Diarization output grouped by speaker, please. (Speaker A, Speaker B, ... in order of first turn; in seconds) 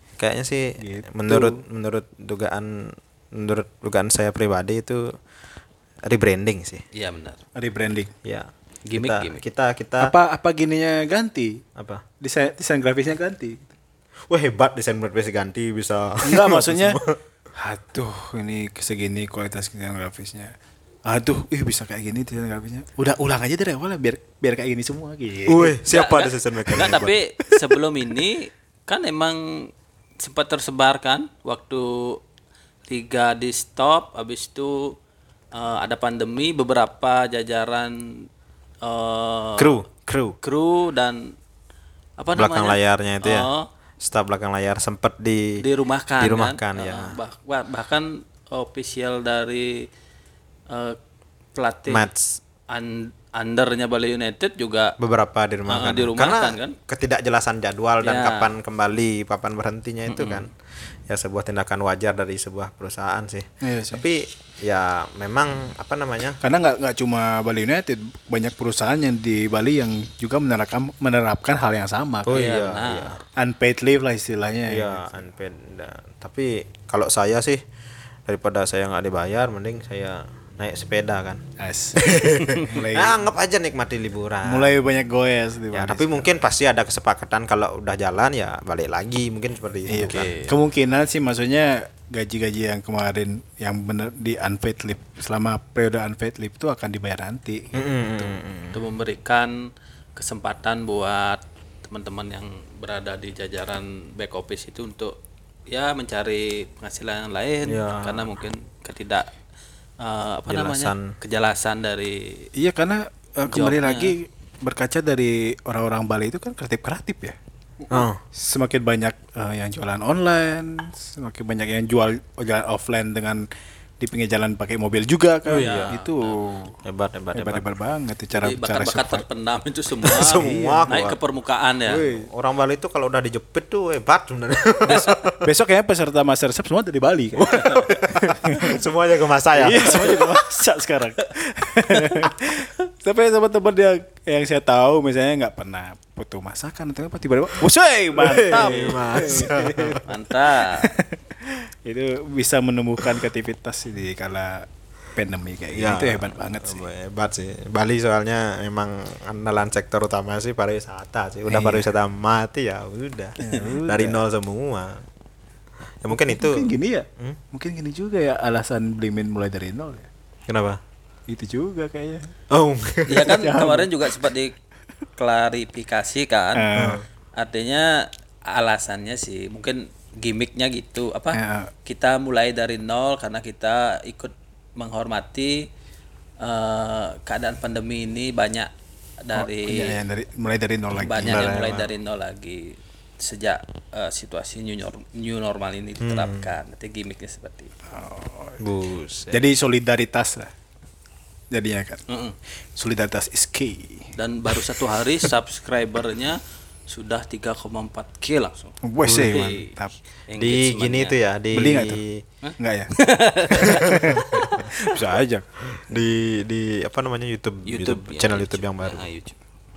Speaker A: 0.2-5.2, 6.1-6.8, 8.2-10.1, 11.8-12.0, 14.3-17.2, 25.5-27.1, 39.6-40.4, 42.4-43.5, 44.0-45.6, 46.2-47.2, 51.9-52.4, 55.0-60.5, 61.1-66.4, 72.3-73.2, 74.7-77.6, 78.3-81.4, 82.0-84.7, 85.7-90.3, 97.7-98.8, 107.7-108.3, 110.5-111.1, 117.9-118.2, 125.5-126.0, 126.8-127.7, 130.1-131.2, 131.9-135.5, 137.4-140.3, 148.1-150.0, 155.7-165.1, 166.0-167.4, 170.5-170.8, 172.5-173.4, 176.7-177.0, 191.2-191.9, 196.0-196.5, 198.6-199.4, 209.0-209.4, 210.4-212.2, 213.6-214.7, 215.7-219.0
Speaker B: 0.8-1.6, 7.5-8.1, 10.0-11.6, 12.2-13.7, 16.2-17.0, 17.6-20.5, 21.1-25.8, 63.6-64.0, 66.4-72.4, 73.4-75.1, 81.6-82.0, 82.6-83.2, 84.5-86.3, 89.9-98.3, 112.6-117.4, 118.3-123.5, 124.0-126.8, 127.3-129.2, 130.1-130.9, 131.9-132.3, 135.4-138.8, 139.5-150.0, 150.8-156.9, 161.5-161.9, 163.4-164.2, 166.1-170.1, 171.3-172.3, 173.3-174.0, 176.6-177.0, 181.3-181.7, 189.3-191.5, 197.9-198.6, 199.3-200.5, 201.5-202.0, 202.8-204.6, 208.8-210.0, 211.5-212.0, 212.6-212.9, 213.5-215.5
Speaker C: 6.9-7.4, 8.9-9.4, 25.9-32.2, 32.9-35.0, 35.5-38.3, 38.8-39.8, 40.4-41.4, 42.2-43.7, 45.6-49.9, 50.7-51.0, 51.5-52.1, 52.7-55.0, 55.7-56.8, 58.0-58.5, 60.1-60.5, 72.3-73.2, 90.0-90.5, 98.7-105.2, 105.7-109.3, 110.0-112.5, 113.5-114.1, 125.5-126.4, 128.4-132.1, 137.5-137.9, 148.5-149.2, 150.0-150.9, 173.1-174.5, 175.2-176.7, 177.4-185.7, 186.4-188.7, 189.2-190.0, 190.9-197.7, 202.1-202.4, 204.2-209.7, 210.3-211.2, 212.4-214.7, 217.7-219.4